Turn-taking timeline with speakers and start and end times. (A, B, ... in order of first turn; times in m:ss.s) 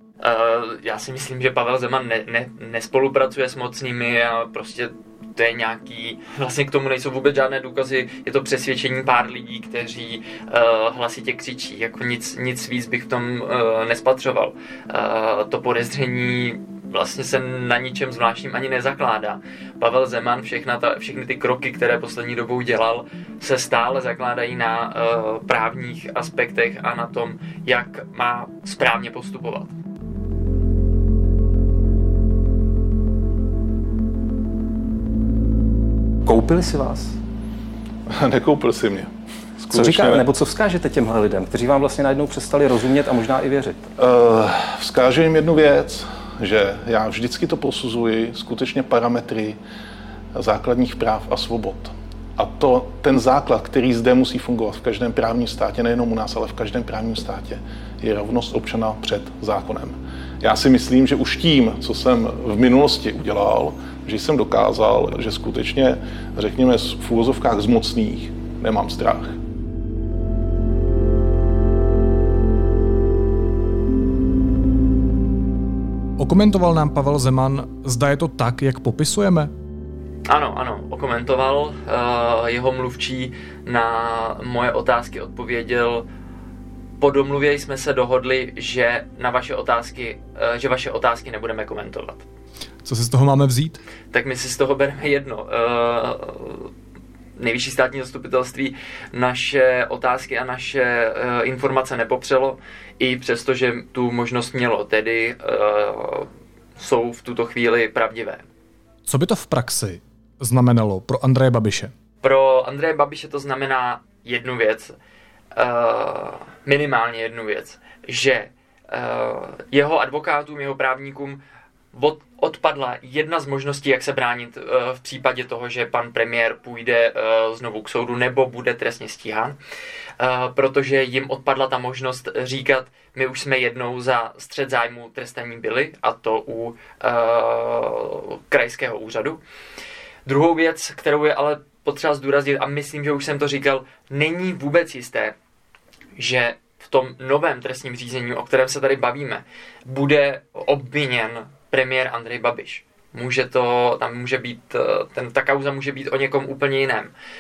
0:00.2-0:29.7 A
0:36.2-0:37.2 B
0:38.1-0:40.2 C
0:39.7-0:43.8 B
0:44.0-0:49.6 C
0:50.4-1:09.4 C
1:16.2-1:19.5 D
1:20.3-1:26.0 A
1:27.0-1:32.2 A
1:32.8-1:33.8 D
1:34.1-1:36.7 A
1:37.4-1:48.4 A
1:49.1-1:51.9 D
1:52.2-1:54.9 A
1:55.6-2:01.4 A
2:01.9-2:09.6 A
2:10.2-2:19.4 A
2:20.3-2:25.4 A
2:26.2-2:37.1 A